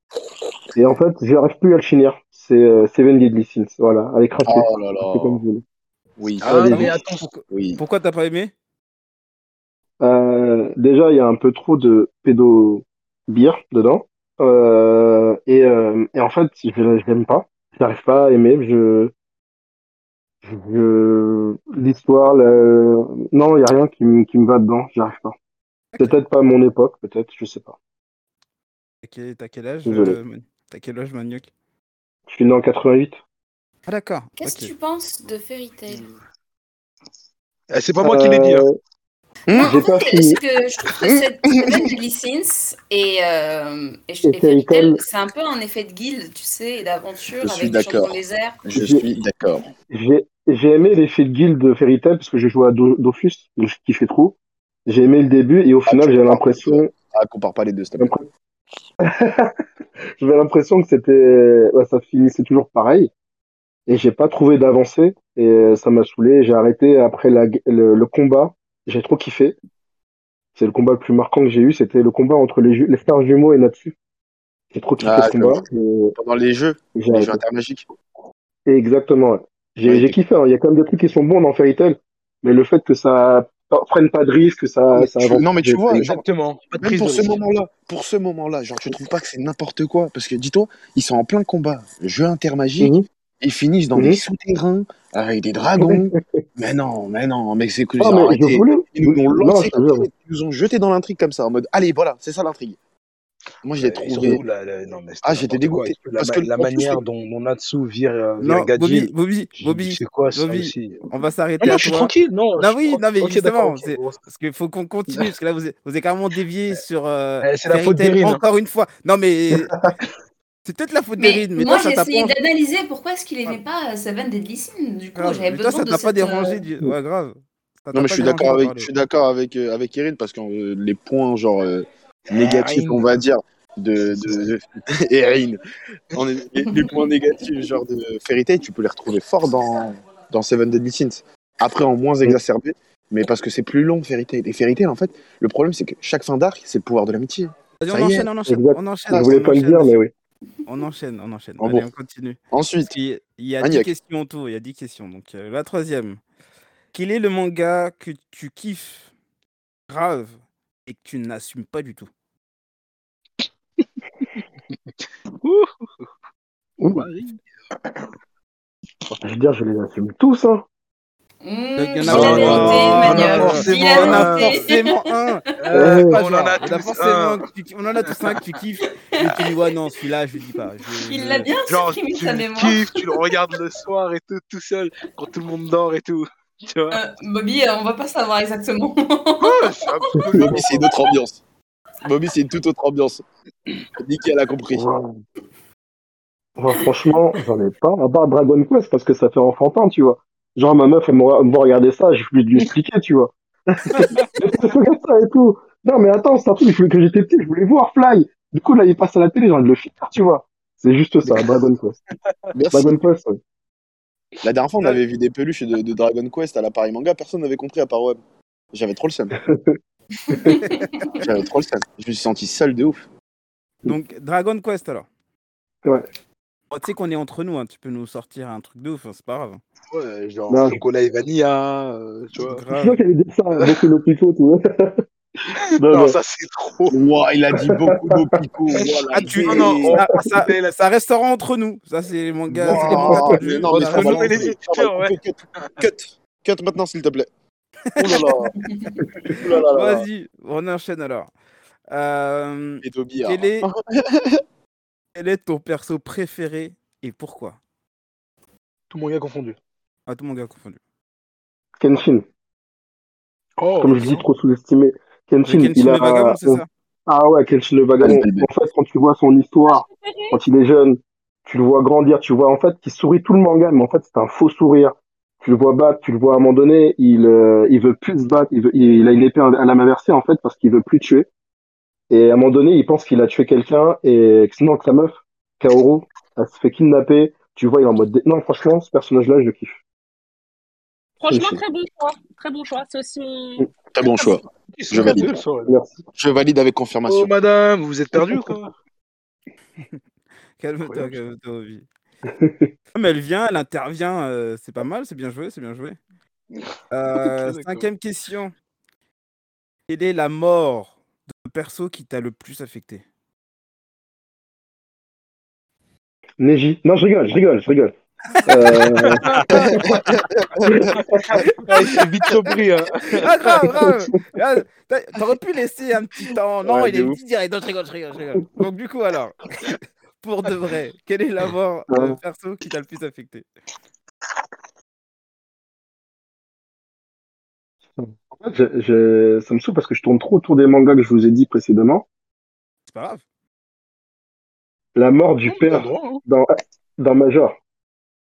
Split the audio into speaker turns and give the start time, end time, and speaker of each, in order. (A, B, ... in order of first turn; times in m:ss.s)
0:00.8-0:05.6 A
0:04.4-0:05.4 B
0:06.2-0:06.7 B
0:06.4-0:07.3 C
0:06.4-0:06.9 A
0:06.7-0:08.5 D
0:07.5-0:07.8 B
0:10.0-0:19.1 A
0:20.4-0:25.3 A
0:25.9-0:26.2 D
0:26.0-0:27.8 A
0:29.0-0:31.5 D
0:29.8-0:30.2 A
0:32.3-0:33.2 A
0:33.8-0:34.7 D
0:34.4-0:36.1 E
0:37.7-0:38.6 C
0:38.0-0:38.7 A
0:39.5-0:39.7 B
0:39.5-0:48.6 E
0:39.5-0:40.4 A
0:41.0-0:41.9 B
0:44.2-0:45.0 A
0:47.4-0:49.6 B
0:48.7-0:49.0 A
0:49.9-0:54.4 A
0:54.9-0:56.9 A
0:55.8-0:58.1 B
0:58.0-0:58.2 A
0:59.2-0:59.5 A
1:00.2-1:03.1 A
1:03.9-1:09.6 A
1:10.6-1:13.9 A
1:14.7-1:16.1 A
1:15.0-1:15.6 B
1:16.2-1:17.9 B
1:16.9-1:17.4 A
1:18.7-1:26.0 A
1:19.8-1:20.2 B
1:25.2-1:26.2 B
1:25.9-1:27.4 C
1:26.8-1:42.8 B
1:35.8-1:36.2 A
1:38.0-1:40.1 A
1:43.6-1:44.4 B
1:43.7-1:51.0 C
1:45.2-1:47.0 B
1:48.4-1:59.7 D
1:51.6-1:54.2 C
1:57.4-1:58.4 C
2:00.6-2:02.4 D
2:01.2-2:06.6 E
2:05.1-2:08.9 D
2:07.9-2:15.6 B
2:12.3-2:13.1 C
2:14.0-2:14.4 C
2:16.1-2:28.3 B
2:27.8-2:30.0 D
2:28.5-2:30.1 A
2:30.6-2:36.2 D
2:31.6-2:31.9 B
2:32.5-2:32.9 B
2:33.6-2:33.9 B
2:36.9-2:39.1 D
2:39.9-2:40.3 D
2:40.8-2:42.1 D
2:45.4-2:45.8 C
2:46.8-2:47.0 A
2:46.9-2:48.1 C
2:49.2-2:50.6 A
2:51.4-2:55.1 E
2:51.8-3:01.5 D
2:52.1-2:52.9 B
2:52.2-2:54.6 C
2:55.6-2:57.4 C
2:55.7-2:56.2 A
3:01.0-3:03.4 E
3:01.6-3:07.0 C
3:06.9-3:10.2 E
3:09.4-3:10.9 C
3:10.3-3:11.4 B
3:12.0-3:13.2 B
3:14.0-3:14.9 B
3:14.7-3:15.1 A
3:16.6-3:31.9 A
3:32.5-3:33.0 B
3:32.7-3:33.4 A
3:34.4-3:38.2 B
3:38.7-3:39.3 B
3:39.5-3:39.7 A
3:40.3-3:40.8 E
3:41.2-3:43.0 B
3:43.8-3:45.1 D
3:46.7-3:49.6 D
3:49.9-3:52.6 C
3:50.5-3:50.8 A
3:52.4-3:53.0 D
3:52.7-3:55.0 A
3:53.6-3:53.9 C
3:55.6-3:56.9 C
3:55.8-3:56.2 A
3:56.9-4:00.0 B
3:58.7-4:00.8 C
3:59.1-4:04.4 D
4:02.5-4:03.4 A
4:02.6-4:07.3 B
4:03.6-4:05.9 C
4:07.9-4:08.3 D
4:08.0-4:08.6 B
4:09.3-4:10.1 B
4:09.7-4:11.3 D
4:11.9-4:13.7 D
4:12.8-4:14.4 B
4:15.1-4:17.6 D
4:18.9-4:19.6 C
4:20.1-4:20.8 D
4:21.8-4:22.2 A
4:23.6-4:24.2 C
4:23.8-4:41.3 A
4:25.4-4:26.7 D
4:28.0-4:28.5 B
4:29.7-4:30.4 F
4:42.1-4:49.8 A
4:51.2-4:53.6 F
4:51.3-4:51.6 A
4:53.9-4:55.4 B
4:54.0-4:55.7 C
4:55.6-4:56.0 A
4:56.2-4:57.3 B
4:57.1-4:58.7 C
5:00.6-5:01.8 D
5:02.4-5:02.7 A
5:02.9-5:06.0 D
5:06.6-5:07.8 C
5:06.9-5:08.5 D
5:09.9-5:13.0 D
5:16.4-5:17.9 A
5:18.4-5:19.8 A
5:19.9-5:20.7 B
5:21.1-5:23.6 C
5:23.2-5:33.5 D
5:23.8-5:24.2 A
5:26.6-5:27.2 B
5:31.9-5:32.2 A
5:38.0-5:42.0 A
5:42.8-5:43.2 D
5:45.0-5:47.5 A
5:45.4-5:46.2 C